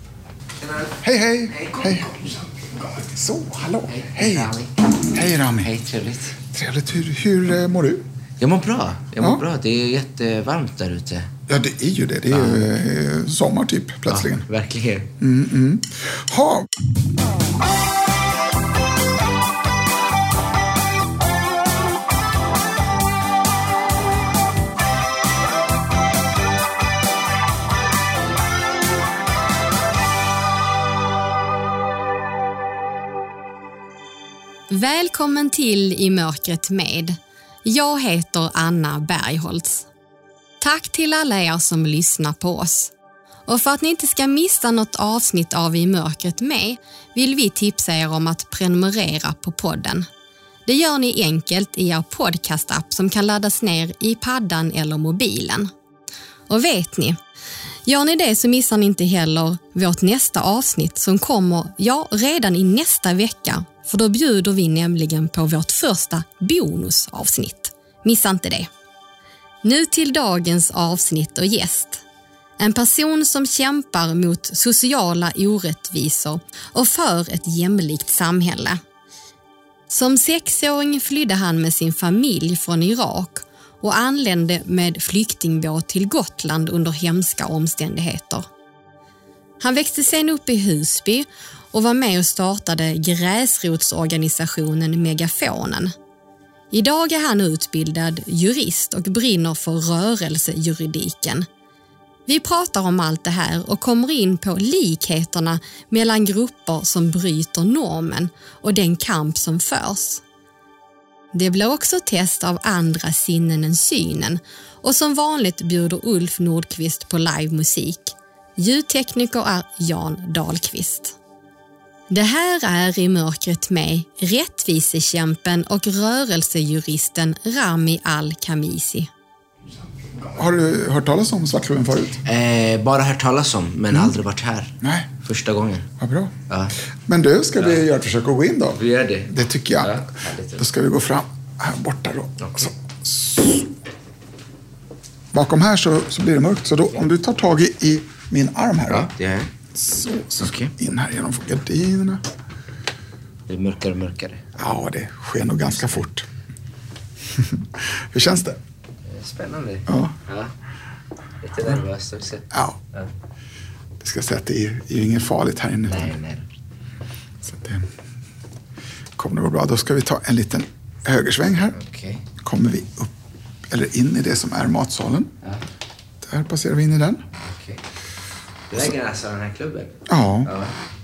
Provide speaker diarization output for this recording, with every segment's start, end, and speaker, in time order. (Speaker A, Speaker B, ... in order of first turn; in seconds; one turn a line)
Speaker A: 0.7-0.9
Speaker B: 1.0-2.2
Speaker A: 1.5-2.3
Speaker B: 2.8-4.5
Speaker A: 3.9-4.9
Speaker B: 5.1-5.7
Speaker A: 5.6-6.4
Speaker B: 6.5-8.0
Speaker A: 8.4-11.3
Speaker B: 11.5-14.5
Speaker A: 12.3-12.7
Speaker A: 14.1-15.1
Speaker B: 15.2-16.7
Speaker C: 34.7-39.9
Speaker C: 40.6-42.9
Speaker C: 43.5-50.1
Speaker C: 50.6-55.7
Speaker C: 56.5-57.2
Speaker C: 57.9-68.7
Speaker C: 69.6-72.0
Speaker C: 72.6-78.8
Speaker C: 79.9-88.5
Speaker C: 89.6-95.9
Speaker C: 96.7-101.5
Speaker C: 102.3-110.2
Speaker C: 111.3-121.2
Speaker C: 122.1-129.1
Speaker B: 130.3-132.2
Speaker A: 132.2-135.9
Speaker B: 134.8-135.1
Speaker B: 136.0-136.4
Speaker A: 136.5-136.7
Speaker B: 137.1-140.0
Speaker A: 138.8-140.6
Speaker B: 140.6-143.7
Speaker A: 142.4-142.7
Speaker B: 145.3-149.1
Speaker A: 148.9-149.5
Speaker B: 149.7-152.2
Speaker A: 150.4-150.7
Speaker A: 153.5-154.5
Speaker B: 154.6-156.2
Speaker A: 155.8-156.1
Speaker B: 157.3-158.6
Speaker A: 159.0-160.5
Speaker B: 159.9-160.2
Speaker A: 161.4-163.1
Speaker B: 162.5-162.8
Speaker B: 164.0-166.1
Speaker A: 165.9-166.4
Speaker B: 167.4-167.9
Speaker B: 169.2-171.8
Speaker A: 171.7-172.2
Speaker B: 172.4-173.1
Speaker B: 173.7-175.3
Speaker B: 176.2-177.2
Speaker A: 177.4-177.8
Speaker A: 178.7-180.7
Speaker B: 180.1-180.5